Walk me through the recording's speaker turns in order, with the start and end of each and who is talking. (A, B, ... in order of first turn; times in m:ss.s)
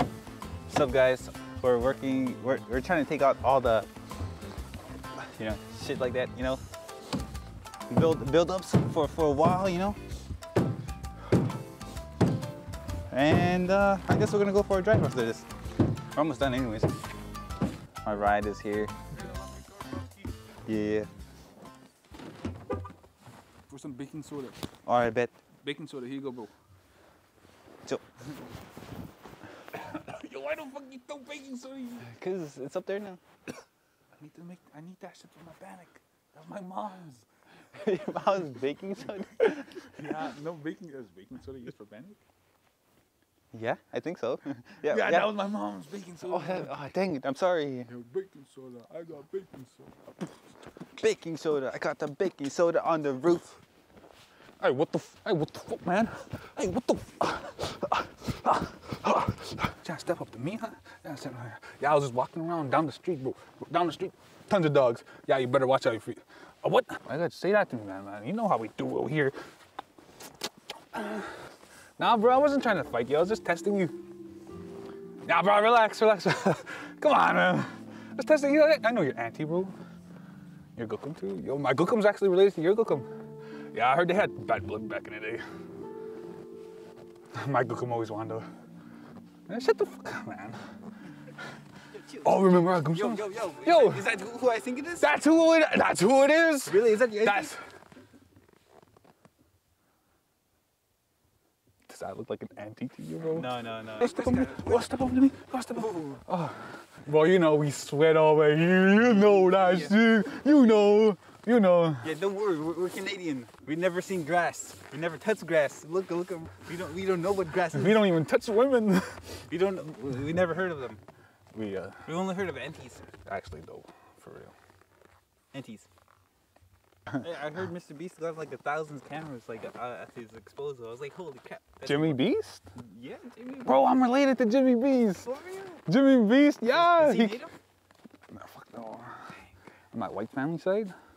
0:00.7-0:03.9 A
0:05.3-0:06.6 A
0:07.9-0:10.0 A
0:13.1-0:15.5 A
0:16.2-0:17.0 A
0:18.0-0:18.9 A
0:20.6-0:21.1 A
0:23.7-0:24.6 B
0:24.9-0:25.4 A
0:25.6-0:26.5 B
0:29.7-0:32.1 B
0:32.0-0:33.2 A
0:34.2-0:37.2 B
0:37.8-0:39.9 A
0:39.9-0:42.2 B
0:43.5-0:45.3 A
0:44.8-0:46.8 B
0:46.2-0:47.9 A
0:47.9-0:50.2 B
0:51.0-0:53.6 A
0:54.6-1:09.4 B
1:10.9-1:11.3 B
1:12.0-1:14.0 B
1:15.2-1:19.8 B
1:20.8-1:23.1 B
1:23.7-1:25.4 B
1:27.4-1:28.5 B
1:29.5-1:30.6 B
1:32.0-1:35.1 A
1:32.2-1:34.1 B
1:35.0-1:37.6 B
1:36.7-1:37.5 A
1:41.9-1:52.1 B
1:43.3-1:44.9 A
1:45.8-1:46.2 A
1:49.2-1:49.9 A
1:52.0-1:58.1 A
1:57.8-1:59.4 B
1:59.5-2:01.0 A
2:01.5-2:02.0 B
2:02.0-2:03.1 A
2:03.3-2:04.5 B
2:05.5-2:05.9 A
2:07.2-2:12.2 A
2:11.8-2:12.7 B
2:12.8-2:13.9 A
2:13.7-2:15.2 B
2:15.2-2:15.8 A
2:15.9-2:17.4 B
2:16.7-2:17.6 A
2:18.3-2:19.3 B
2:19.9-2:20.9 B